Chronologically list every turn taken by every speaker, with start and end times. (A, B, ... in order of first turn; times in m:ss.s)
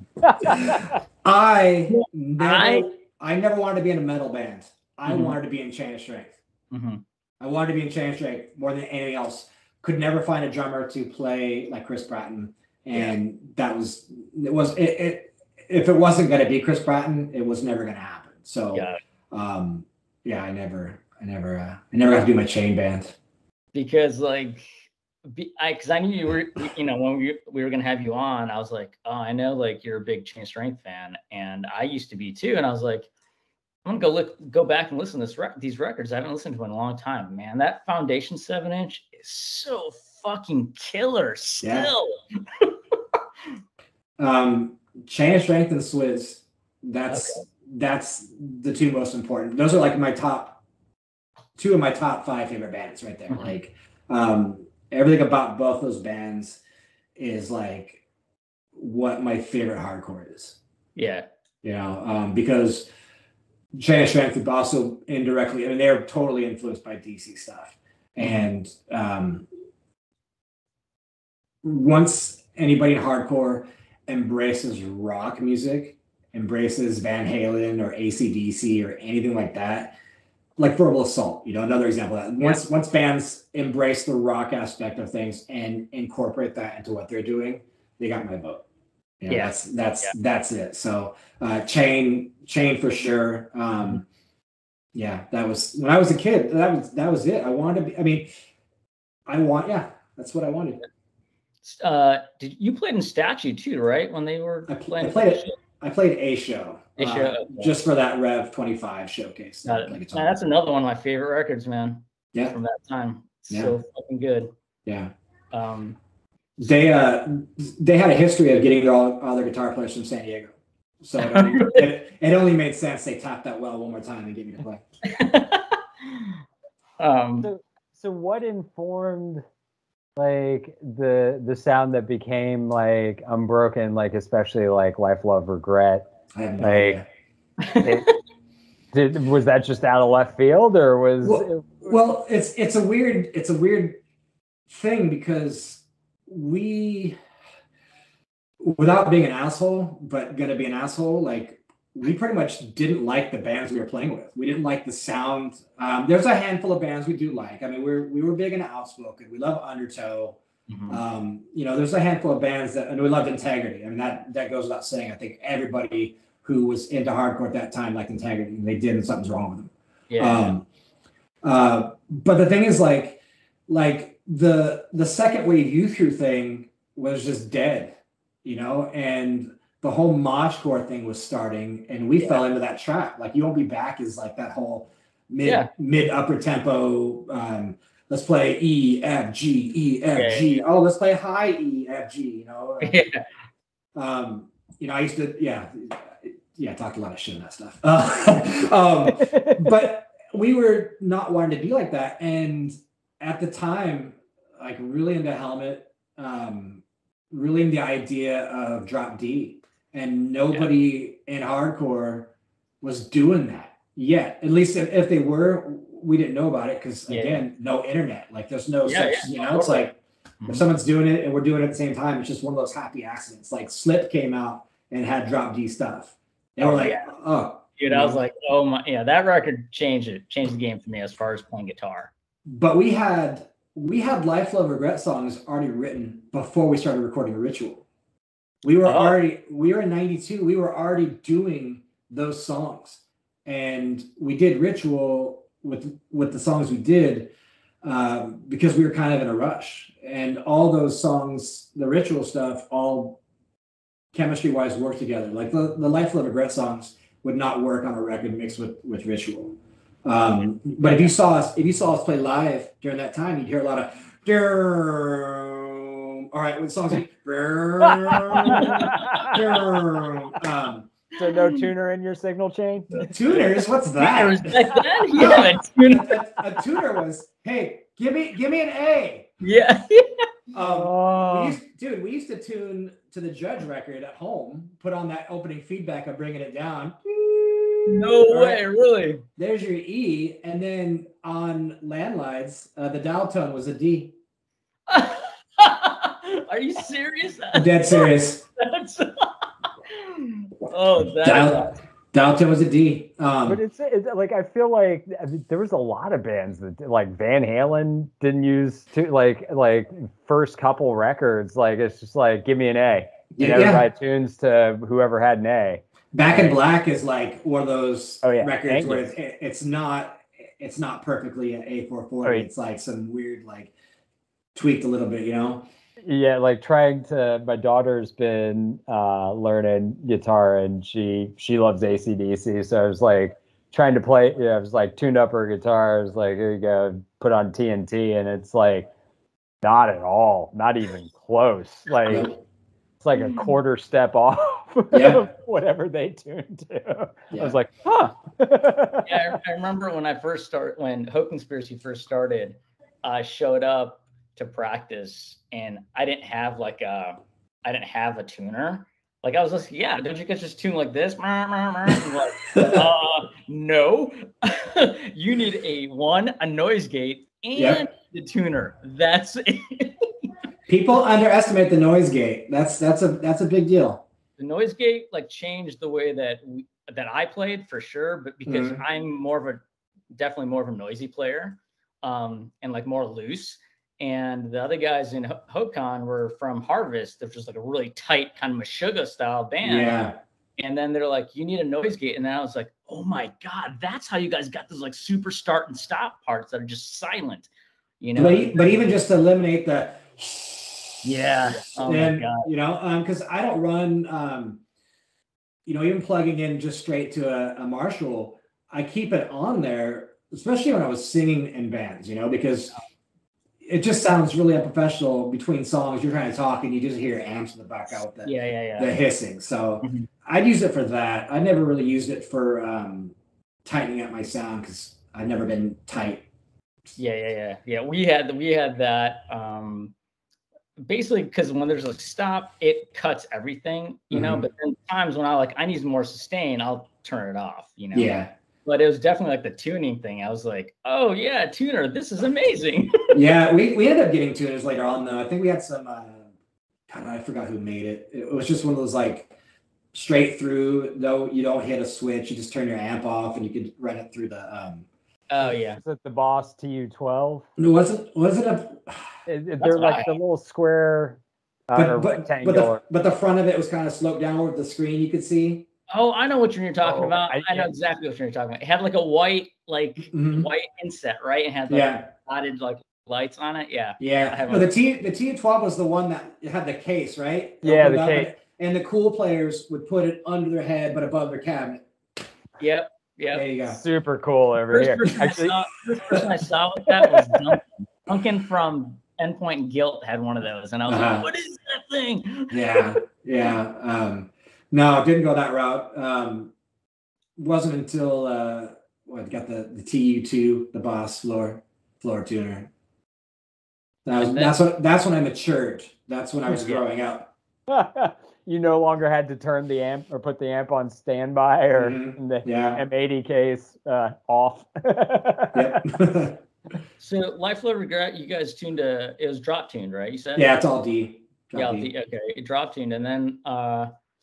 0:00.5-0:06.4 A
0:00.5-0:00.8 B
0:01.9-0:02.9 C
0:05.0-0:05.4 C
0:06.7-0:07.0 C
0:07.4-0:23.1 A
0:18.7-0:19.0 C
0:23.7-0:24.7 C
0:25.2-0:33.1 C
0:33.8-0:42.7 C
0:41.6-0:41.9 A
0:44.2-0:50.6 A
0:47.1-0:47.4 C
0:51.6-0:56.6 A
0:57.2-0:58.0 A
0:58.7-1:00.6 A
1:01.0-1:01.3 C
1:01.6-1:02.9 A
1:03.7-1:09.4 A
1:08.2-1:08.5 C
1:11.6-1:20.0 A
1:20.6-1:28.6 A
1:29.2-1:34.0 A
1:29.3-1:30.1 C
1:34.9-1:38.3 A
1:39.3-1:40.8 A
1:41.6-1:45.5 C
1:44.7-1:50.3 A
1:47.0-1:47.7 C
1:49.6-1:54.5 C
1:54.8-1:55.1 A
1:55.5-1:56.0 C
1:56.6-2:04.8 A
2:01.2-2:01.8 C
2:05.0-2:06.3 C
2:07.0-2:07.5 C
2:07.4-2:09.4 B
2:10.2-2:16.1 B
2:16.3-2:17.0 A
2:16.6-2:17.0 B
2:17.6-2:18.1 C
2:18.9-2:21.9 B
2:21.2-2:24.0 A
2:24.7-2:27.2 A
2:28.6-2:50.6 A
2:40.7-2:41.0 C
2:50.1-2:50.5 C
2:51.4-3:13.0 A
3:05.4-3:05.7 C
3:10.1-3:10.6 C
3:12.8-3:13.2 C
3:14.0-3:40.0 A
3:19.1-3:19.7 B
3:37.1-3:37.4 C
3:38.8-3:39.9 C
3:40.5-3:48.2 A
3:46.6-3:47.1 C
3:47.8-3:52.1 C
3:52.5-3:57.8 A
3:58.6-4:07.3 A
3:58.8-3:59.2 C
4:07.8-4:13.2 A
4:14.1-4:30.9 A
4:20.8-4:21.1 C
4:28.0-4:29.6 B
4:28.5-4:29.4 C
4:31.2-4:33.4 B
4:33.1-4:39.3 A
4:33.9-4:36.8 C
4:34.8-4:35.3 B
4:39.4-4:40.3 C
4:40.5-4:48.6 A
4:40.6-4:41.6 B
4:47.9-4:49.2 C
4:49.4-4:54.1 A
4:54.9-5:01.8 C
4:57.5-4:58.4 A
5:01.2-5:03.6 A
5:03.4-5:16.6 B
5:13.3-5:13.8 A
5:16.1-5:23.7 A
5:18.2-5:19.1 B
5:24.5-5:25.7 A
5:26.0-5:38.9 B
5:39.6-5:42.3 B
5:42.0-5:42.3 A
5:43.0-5:49.4 B
5:44.9-5:45.2 A
5:49.0-6:10.3 C
6:02.5-6:02.9 A
6:07.6-6:07.8 A
6:10.7-6:14.0 A
6:14.4-6:30.0 C
6:18.4-6:18.8 A
6:29.6-6:30.2 A
6:30.6-6:37.5 C
6:38.0-6:38.8 C
6:38.1-6:44.6 A
6:41.0-6:42.5 C
6:45.6-6:52.7 A
6:53.6-7:06.2 A
6:58.2-6:58.9 C
7:07.0-7:09.9 C
7:10.8-7:23.1 C
7:14.1-7:14.4 A
7:17.9-7:18.3 A
7:23.1-7:26.3 A
7:26.9-7:29.3 A
7:29.9-7:34.8 A
7:35.3-7:35.8 C
7:35.8-7:37.5 B
7:37.6-7:39.1 A
7:39.3-7:42.8 B
7:39.6-7:40.1 C
7:41.7-7:45.7 A
7:45.9-7:54.7 C
7:46.8-7:47.7 B
7:50.1-7:50.5 A
7:51.7-7:52.1 A
7:54.0-8:01.8 A
7:57.6-7:58.3 B
8:02.6-8:03.4 C
8:03.3-8:03.8 A
8:03.6-8:05.6 B
8:04.7-8:12.9 C
8:10.9-8:11.3 A
8:12.5-8:16.5 A
8:17.4-8:22.7 A
8:24.0-8:27.3 A
8:24.2-8:24.5 C
8:26.5-8:26.8 C
8:27.7-8:35.8 B
8:31.8-8:32.8 A
8:35.5-8:36.4 A
8:37.0-8:40.5 C
8:40.4-8:41.9 A
8:41.5-8:43.9 C